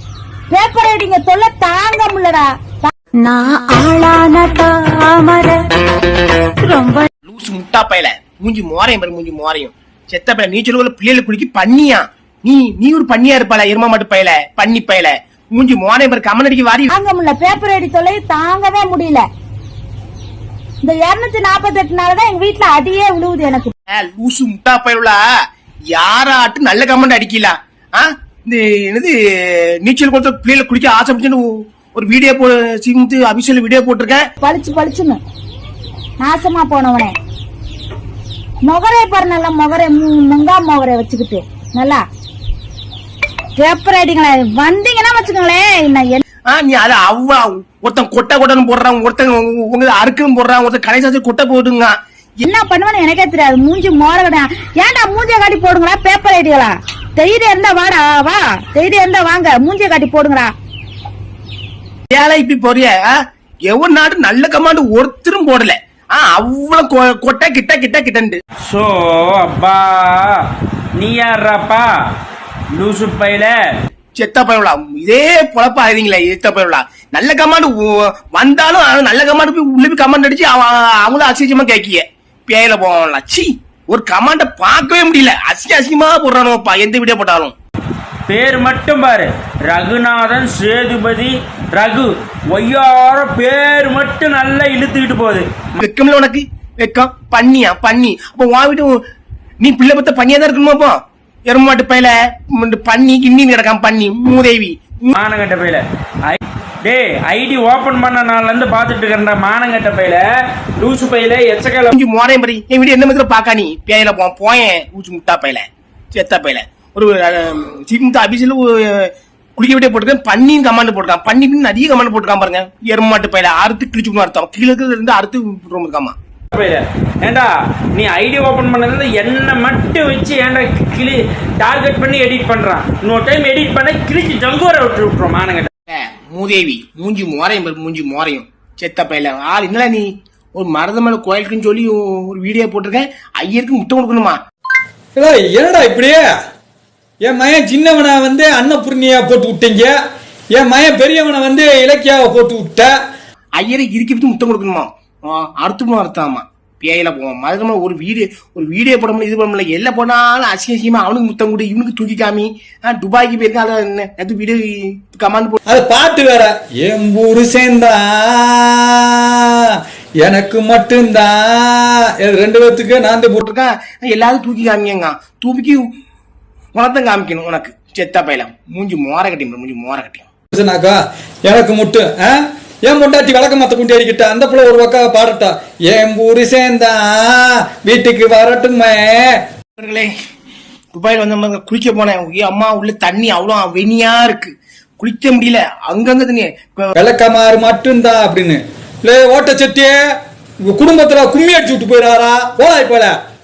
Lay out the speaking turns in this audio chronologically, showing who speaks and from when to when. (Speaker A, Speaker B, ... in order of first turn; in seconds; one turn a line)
Speaker A: 0.5-2.9
Speaker B: 3.2-5.6
Speaker B: 6.6-7.1
Speaker C: 7.2-16.9
Speaker A: 16.9-19.2
Speaker A: 20.8-23.7
Speaker C: 23.9-25.2
Speaker C: 25.9-34.3
Speaker A: 34.4-35.2
Speaker A: 36.2-37.1
Speaker A: 38.6-42.0
Speaker A: 43.6-46.2
Speaker C: 46.5-51.9
Speaker A: 52.4-60.5
Speaker C: 62.1-63.2
Speaker C: 63.7-68.4
Speaker D: 68.7-70.4
Speaker D: 71.0-71.9
Speaker D: 72.8-73.5
Speaker C: 74.2-87.5
Speaker D: 88.3-95.7
Speaker C: 95.8-99.0
Speaker C: 99.6-105.1
Speaker D: 105.1-110.2
Speaker D: 110.8-111.9
Speaker C: 111.9-126.2
Speaker D: 126.5-135.7
Speaker C: 135.9-144.4
Speaker E: 145.2-146.2
Speaker E: 147.2-149.9
Speaker E: 150.6-152.9
Speaker C: 153.6-165.6
Speaker E: 165.7-173.4
Speaker C: 173.4-175.9
Speaker C: 176.7-180.3
Speaker E: 180.5-189.4
Speaker C: 189.8-190.1
Speaker C: 190.9-196.9
Speaker E: 197.0-199.9
Speaker E: 200.7-203.1